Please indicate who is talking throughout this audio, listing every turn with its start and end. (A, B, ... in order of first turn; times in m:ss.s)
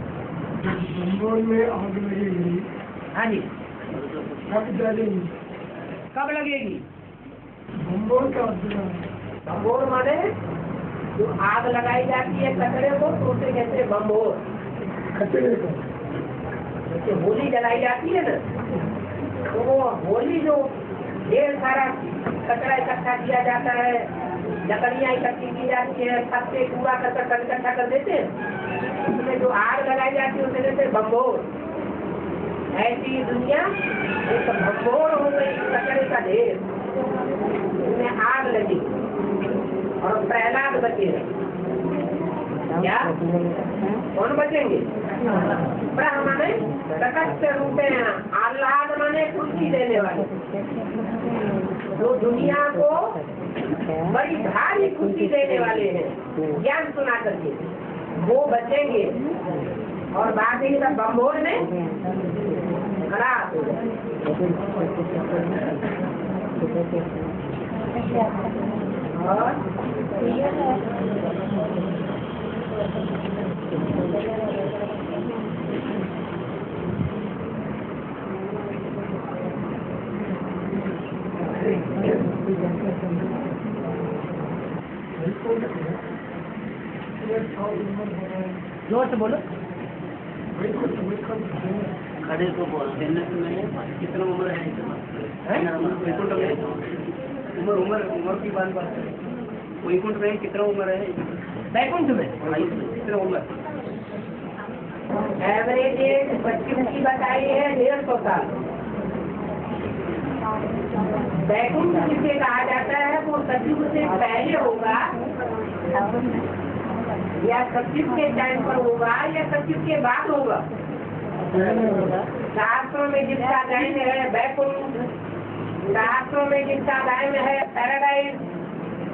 0:00.6-0:02.7 A
0:03.1-0:03.4 B
0:03.9-0:04.5 C
0:04.5-0:05.3 A
0:06.1-0:06.8 B
0:07.8-0:09.0 A
0:09.5-0:10.3 B
0:11.2-0:14.4 B
0:15.2-0:15.8 A
0:16.9-0:18.4 B
0:19.5-0:20.7 B
0:21.3-0:24.1 B
0:24.6-0:28.3 B
0:29.1-0:31.5 B
0:32.7-0:33.7 B
0:34.3-0:36.6 B
0:37.8-0:38.9 B
0:40.0-0:41.2 B
0:42.8-0:43.1 B
0:44.1-0:44.8 B
0:45.9-0:50.3 B
0:52.0-0:53.2 B
0:54.0-0:57.6 B
0:58.2-0:59.2 B
1:00.1-1:01.7 B
1:03.1-1:03.8 B
1:09.1-1:09.6 B
1:25.2-1:26.0 A
1:27.2-1:28.6 A
1:28.9-1:29.4 B
1:30.5-1:31.9 A
1:32.2-1:37.0 C
1:37.6-1:39.1 C
1:39.8-1:41.2 C
1:41.7-1:42.4 B
1:42.4-1:43.4 C
1:45.4-1:48.5 B
1:51.5-1:55.1 B
1:57.4-2:00.6 B
2:01.5-2:02.2 C
2:02.5-2:05.1 B
2:05.9-2:08.4 B